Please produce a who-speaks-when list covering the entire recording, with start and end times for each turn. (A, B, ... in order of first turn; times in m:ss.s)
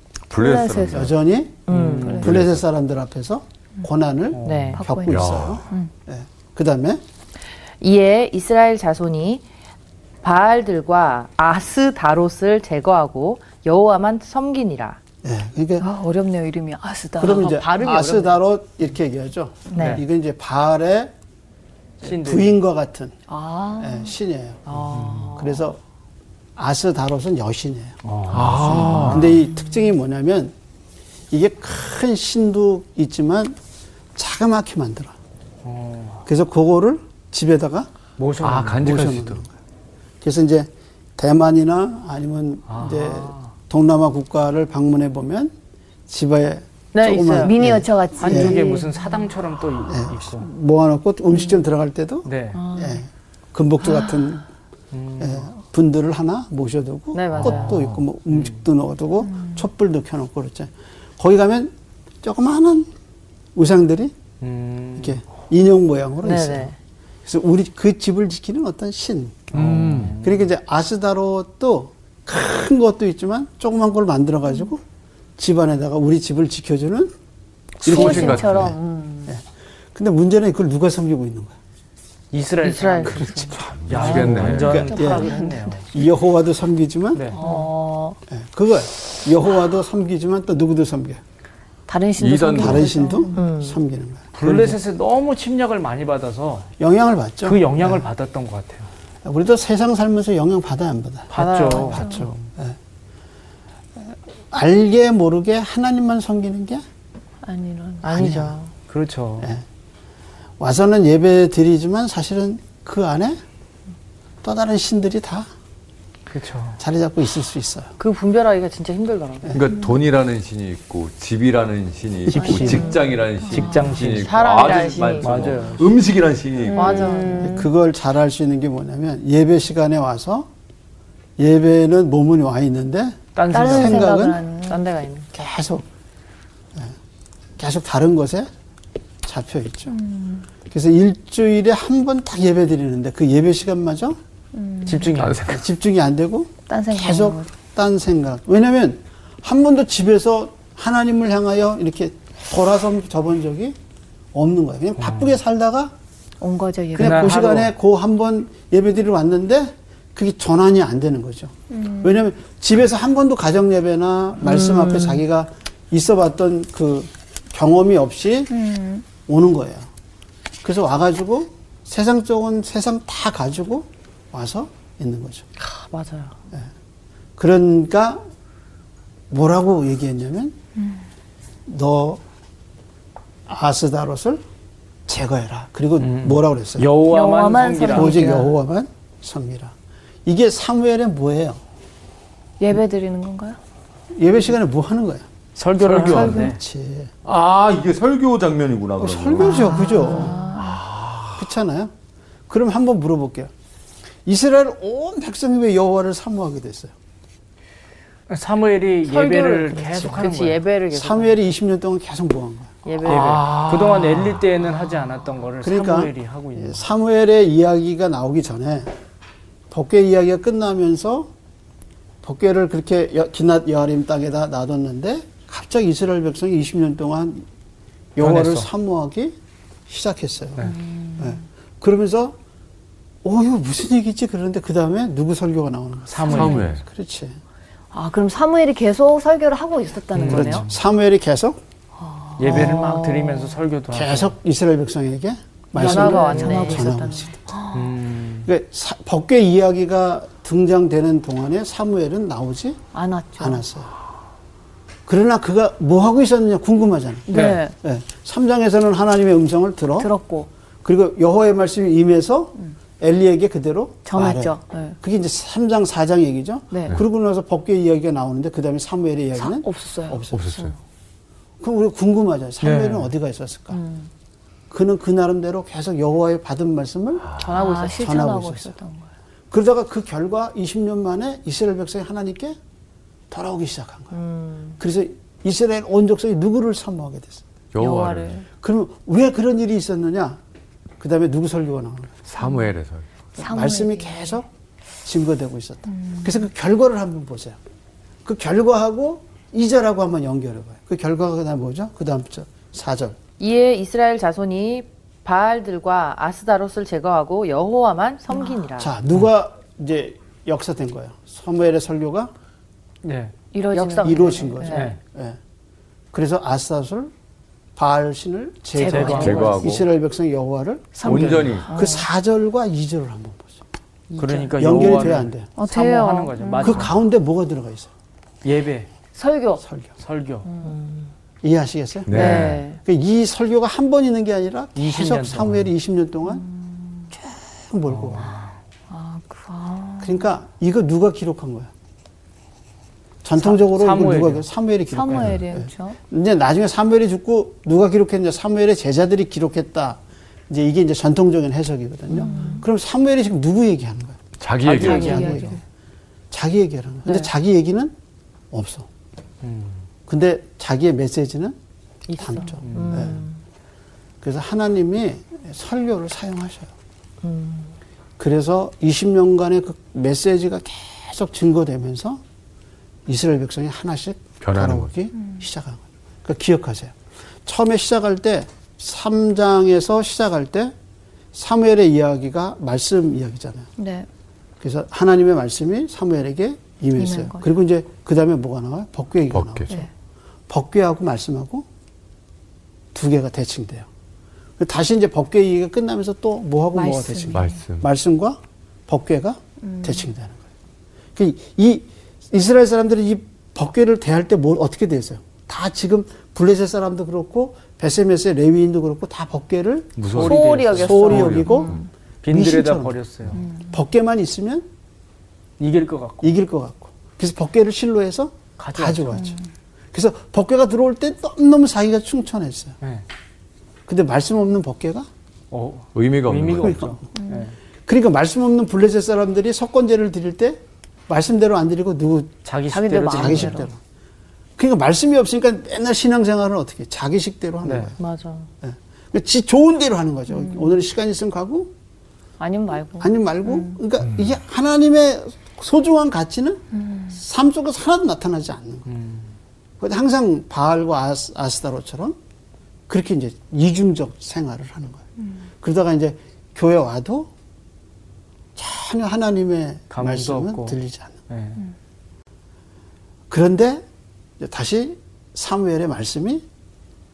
0:00.3-0:01.1 A
0:00.4-0:01.0 B
0:00.9-0:07.0 C
0:01.7-0:02.2 D
0:01.7-0:02.4 E
0:02.1-0:02.6 A
0:04.3-0:04.8 E
0:04.4-0:04.9 D
0:04.8-0:05.9 B
0:05.1-0:05.6 A
0:07.8-0:09.4 D
0:10.2-0:15.0 D
0:15.2-0:15.9 C
0:15.8-0:18.4 B
0:17.2-0:21.1 C
0:19.7-0:20.0 B
0:19.8-0:20.0 E
0:22.0-0:22.6 E
0:22.0-0:23.2 C
0:23.3-0:24.1 B
0:23.8-0:25.8 C
0:24.7-0:25.7 B
0:24.8-0:25.4 E
0:26.6-0:28.0 C
0:28.0-0:29.4 E
0:28.3-0:29.3 A
0:28.7-0:30.5 C
0:31.3-0:33.6 C
0:34.2-0:35.2 C
0:35.6-0:36.2 E
0:36.3-0:37.9 C
0:38.2-0:38.8 E
0:38.4-0:39.4 A
0:38.8-0:39.5 C
0:40.2-0:45.5 C
0:42.7-0:43.5 E
0:46.1-0:48.6 C
0:47.0-0:49.3 B
0:48.2-0:50.5 E
0:49.8-0:54.4 C
0:52.2-0:52.6 E
0:52.6-0:53.0 B
0:54.9-0:55.5 E
0:55.2-1:02.9 C
0:57.1-0:57.8 D
0:57.4-0:58.6 E
0:57.6-0:58.0 A
0:59.3-0:59.6 B
1:03.6-1:04.1 C
1:04.4-1:05.2 E
1:05.0-1:06.7 C
1:06.2-1:06.7 D
1:07.3-1:14.8 C
1:09.5-1:10.5 E
1:09.6-1:10.1 A
1:15.4-1:17.1 C
1:17.8-1:19.4 B
1:17.8-1:18.7 A
1:17.8-1:19.4 C
1:19.9-1:21.6 C
1:22.3-1:25.9 E
1:22.6-1:23.6 D
1:23.2-1:25.8 B
1:23.5-1:24.9 A
1:24.1-1:27.6 C
1:27.1-1:27.4 E
1:27.3-1:28.2 B
1:28.3-1:31.2 C
1:31.9-1:33.8 B
1:32.2-1:33.0 A
1:32.6-1:34.8 C
1:34.4-1:36.7 E
1:36.8-1:38.1 C
1:37.4-1:38.9 E
1:39.2-1:42.8 C
1:41.3-1:42.4 E
1:41.4-1:41.8 D
1:41.5-1:42.3 B
1:44.0-1:46.8 C
1:47.4-1:48.4 B
1:48.0-1:48.6 C
1:48.1-1:48.7 D
1:48.9-1:49.5 E
1:50.6-1:53.4 C
1:54.4-1:55.5 C
1:56.3-1:56.8 E
1:56.8-1:57.9 C
1:58.0-1:59.5 D
1:59.4-1:59.7 C
1:59.5-2:07.3 A
2:02.3-2:02.9 C
2:02.4-2:03.0 B
2:03.5-2:04.5 E
2:03.6-2:03.9 B
2:04.2-2:05.5 D
2:05.2-2:05.9 E
2:06.7-2:07.7 B
2:06.8-2:07.5 D
2:06.9-2:10.5 C
2:11.4-2:14.4 C
2:13.4-2:14.1 E
2:13.5-2:15.3 B
2:15.3-2:15.8 C
2:17.6-2:18.5 C
2:19.2-2:20.0 C
2:19.9-2:20.5 B
2:20.7-2:24.2 C
2:24.5-2:25.2 B
2:24.8-2:25.6 E
2:25.2-2:25.6 A
2:25.5-2:33.8 C
2:26.7-2:27.5 B
2:34.3-2:35.9 C
2:35.0-2:35.4 E
2:36.4-2:37.4 B
2:37.0-2:37.7 E
2:37.0-2:48.5 C
2:41.7-2:42.2 B
2:44.4-2:45.2 B
2:48.5-2:49.0 B
2:49.3-2:49.9 C
2:50.6-2:55.5 C
2:55.6-2:56.3 D
2:57.4-2:58.2 C
2:59.3-3:00.6 C
3:01.7-3:02.2 C
3:03.5-3:04.4 C
3:05.1-3:06.9 C
3:06.0-3:08.3 E
3:07.0-3:08.5 B
3:07.9-3:09.7 C
3:10.2-3:11.6 C
3:12.6-3:13.6 B
3:14.2-3:15.3 C
3:15.6-3:16.6 E
3:15.8-3:16.4 A
3:16.0-3:17.1 C
3:17.2-3:19.8 A
3:19.0-3:20.6 C
3:19.4-3:20.8 B
3:20.5-3:21.4 A
3:21.4-3:21.9 C
3:22.5-3:23.5 C
3:24.2-3:26.9 C
3:28.3-3:30.6 E
3:29.2-3:31.4 D
3:30.9-3:32.9 C
3:32.8-3:33.5 D
3:33.0-3:36.8 E
3:33.0-3:34.4 A
3:35.6-3:38.9 C
3:39.7-3:41.3 C
3:42.2-3:47.5 C
3:48.2-3:49.4 C
3:48.2-3:48.7 E
3:49.9-3:52.4 C
3:50.7-3:51.4 B
3:53.2-3:57.4 C
3:56.1-3:56.6 E
3:56.3-3:56.8 A
3:56.3-3:56.6 B
3:57.9-4:00.6 B
4:00.1-4:00.7 E
4:00.3-4:01.6 C
4:02.0-4:03.6 B
4:02.4-4:04.4 E
4:02.5-4:02.9 C
4:03.9-4:07.4 C
4:05.8-4:07.9 B
4:05.8-4:06.9 D
4:06.1-4:06.8 E
4:07.7-4:08.5 E
4:08.4-4:12.8 C
4:12.9-4:13.6 B
4:13.4-4:13.9 C
4:15.1-4:20.1 C
4:17.3-4:17.7 B
4:17.3-4:17.6 E
4:20.0-4:20.5 B
4:20.8-4:30.7 C
4:24.0-4:25.0 B
4:26.7-4:27.0 B
4:29.4-4:30.7 B
4:30.3-4:30.8 A
4:31.6-4:33.8 C
4:32.6-4:33.1 E
4:33.7-4:34.1 B
4:34.7-4:38.8 C
4:37.4-4:39.1 B
4:37.5-4:37.9 D
4:39.5-4:42.6 C
4:43.3-4:44.2 C
4:44.1-4:44.8 B
4:44.8-4:47.4 C
4:47.7-4:48.4 A
4:47.8-4:48.5 B
4:48.6-4:50.4 C
4:51.0-4:52.2 C
4:52.3-4:53.0 A
4:53.4-4:54.5 C
4:53.4-4:54.4 B
4:55.0-4:57.6 C
4:56.0-4:56.3 B
4:58.2-5:03.2 C
5:03.4-5:09.0 D
5:08.8-5:12.3 C
5:13.0-5:13.3 E
5:13.5-5:14.9 B
5:13.7-5:15.4 C
5:14.7-5:15.0 E
5:16.1-5:17.1 C
5:17.8-5:23.6 C
5:18.8-5:19.6 B
5:18.8-5:19.6 E
5:19.1-5:19.9 A
5:21.0-5:22.1 B
5:21.0-5:21.7 A
5:21.1-5:21.6 E
5:24.2-5:26.9 E
5:24.2-5:24.5 B
5:24.5-5:25.5 C
5:25.6-5:26.8 B
5:26.6-5:27.9 C
5:28.4-5:28.9 E
5:29.1-5:29.6 B
5:29.6-5:29.9 C
5:30.0-5:30.5 E
5:30.5-5:31.1 B
5:31.4-5:36.5 C
5:32.1-5:32.6 A
5:32.1-5:32.7 D
5:32.2-5:32.6 E
5:32.2-5:32.6 B
5:34.8-5:35.7 E
5:36.4-5:37.1 B
5:37.1-5:38.3 C
5:37.9-5:38.5 E
5:38.9-5:40.2 B
5:40.0-5:41.7 C
5:43.2-5:54.2 C
5:43.4-5:44.5 E
5:44.9-5:46.0 B
5:52.1-5:52.7 B
5:54.4-5:55.4 A
5:54.6-5:55.6 E
5:54.7-5:55.6 B
5:54.8-5:55.6 C
5:56.3-5:57.9 C
5:58.5-5:58.9 C
5:59.4-5:59.8 E
6:00.1-6:01.6 C
6:02.1-6:03.3 C
6:02.2-6:03.4 B
6:02.6-6:03.2 E
6:04.2-6:06.7 C
6:07.2-6:07.7 B
6:08.2-6:12.2 C
6:13.1-6:16.9 C
6:14.4-6:14.9 A
6:17.5-6:20.8 C
6:21.3-6:23.7 C
6:23.8-6:24.1 B
6:24.6-6:29.9 C
6:27.0-6:27.4 B
6:29.3-6:29.7 A
6:30.5-6:31.7 C
6:32.9-6:33.9 C
6:34.6-6:40.4 C
6:36.7-6:37.5 B
6:37.3-6:37.9 A
6:39.7-6:40.0 B
6:41.2-6:54.7 C
6:50.0-6:51.8 A
6:50.1-6:51.4 E
6:50.2-6:51.9 B
6:52.2-6:53.4 E
6:53.4-6:53.7 B
6:55.6-6:56.4 E
6:56.2-6:59.4 C
6:58.6-6:59.2 E
6:59.9-7:02.8 C
7:03.9-7:05.1 C
7:05.5-7:07.5 E
7:06.0-7:06.8 A
7:06.6-7:07.1 C
7:07.2-7:07.5 B
7:07.9-7:12.4 C
7:12.4-7:13.7 E
7:12.7-7:13.7 B
7:13.0-7:13.8 C
7:14.6-7:18.0 C
7:17.6-7:17.9 E
7:18.2-7:18.5 B
7:18.6-7:21.7 C
7:20.4-7:20.7 B
7:22.4-7:23.8 B
7:23.0-7:28.9 C
7:26.7-7:27.2 B
7:28.9-7:29.3 E
7:29.8-7:32.2 C
7:32.9-7:35.1 C
7:35.6-7:37.3 C
7:38.6-7:41.2 C
7:39.9-7:40.8 E
7:41.3-7:41.6 E
7:43.3-7:43.8 C
7:44.4-7:46.4 C